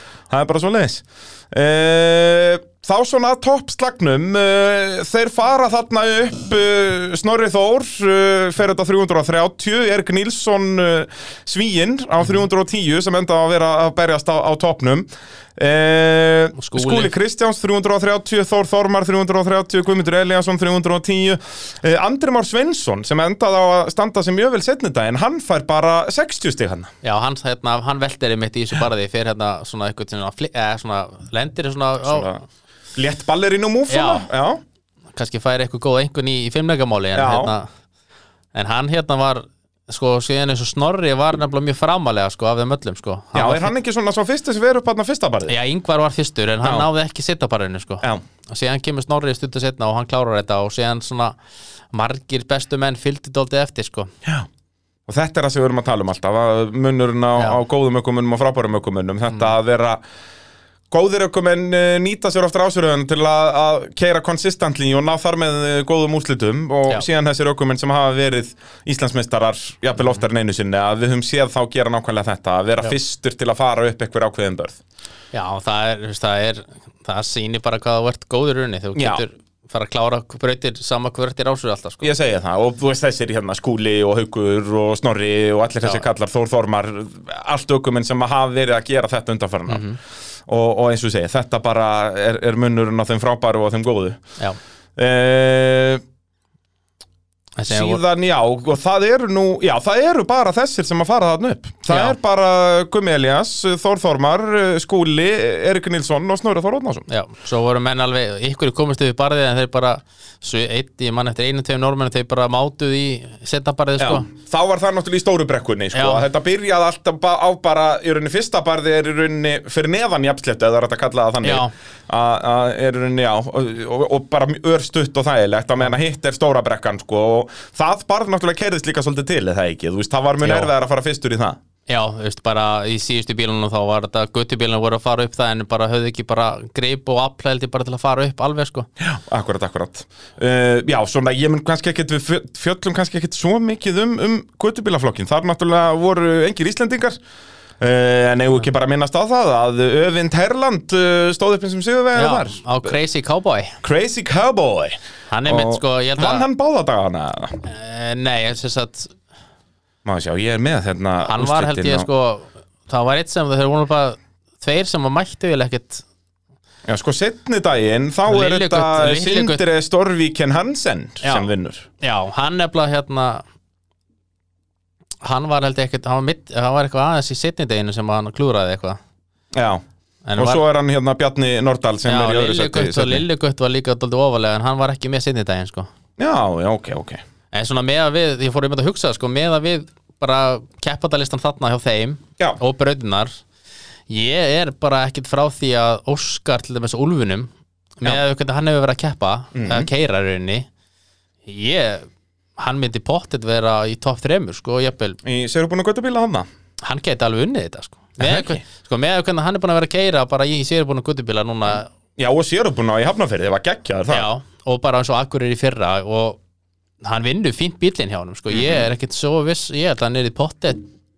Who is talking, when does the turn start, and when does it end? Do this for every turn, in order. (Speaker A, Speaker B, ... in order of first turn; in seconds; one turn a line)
Speaker A: 0.3-26.9
Speaker B: 16.6-17.1
Speaker B: 27.0-32.4
Speaker A: 32.0-32.4
Speaker A: 32.9-34.6
Speaker B: 33.9-34.2
Speaker B: 35.1-37.7
Speaker A: 37.1-37.5
Speaker B: 38.5-43.7
Speaker A: 43.3-45.5
Speaker B: 45.5-51.4
Speaker A: 46.6-46.9
Speaker B: 51.9-54.1
Speaker A: 55.1-60.0
Speaker A: 60.9-74.8
Speaker B: 75.3-82.1
Speaker A: 79.0-79.2
Speaker A: 82.0-89.8
Speaker B: 89.7-90.0
Speaker A: 90.5-94.2
Speaker A: 95.0-96.0
Speaker B: 97.6-98.0
Speaker A: 97.7-107.0
Speaker B: 101.9-102.2
Speaker B: 107.1-114.2
Speaker A: 114.0-131.6
Speaker B: 115.9-116.2
Speaker B: 121.4-121.7
Speaker B: 130.4-130.7
Speaker B: 131.9-138.9
Speaker A: 139.0-147.2
Speaker A: 147.8-152.9
Speaker B: 152.1-153.8
Speaker A: 153.8-157.6
Speaker B: 155.3-156.5
Speaker B: 157.6-159.1
Speaker A: 160.0-162.1
Speaker B: 161.2-166.0
Speaker A: 166.9-171.9
Speaker B: 168.2-169.6
Speaker B: 172.0-173.4
Speaker B: 175.2-179.0
Speaker A: 179.5-179.8
Speaker B: 180.2-180.6
Speaker A: 180.4-183.2
Speaker B: 182.1-185.9
Speaker A: 186.2-187.2
Speaker B: 187.5-193.3
Speaker B: 194.1-200.7
Speaker A: 199.5-199.9
Speaker B: 201.5-202.1
Speaker B: 202.6-205.2
Speaker A: 205.2-206.5
Speaker B: 206.8-211.9
Speaker A: 208.2-208.6
Speaker A: 212.2-214.3
Speaker B: 214.1-216.4
Speaker B: 217.0-220.9
Speaker A: 218.5-218.9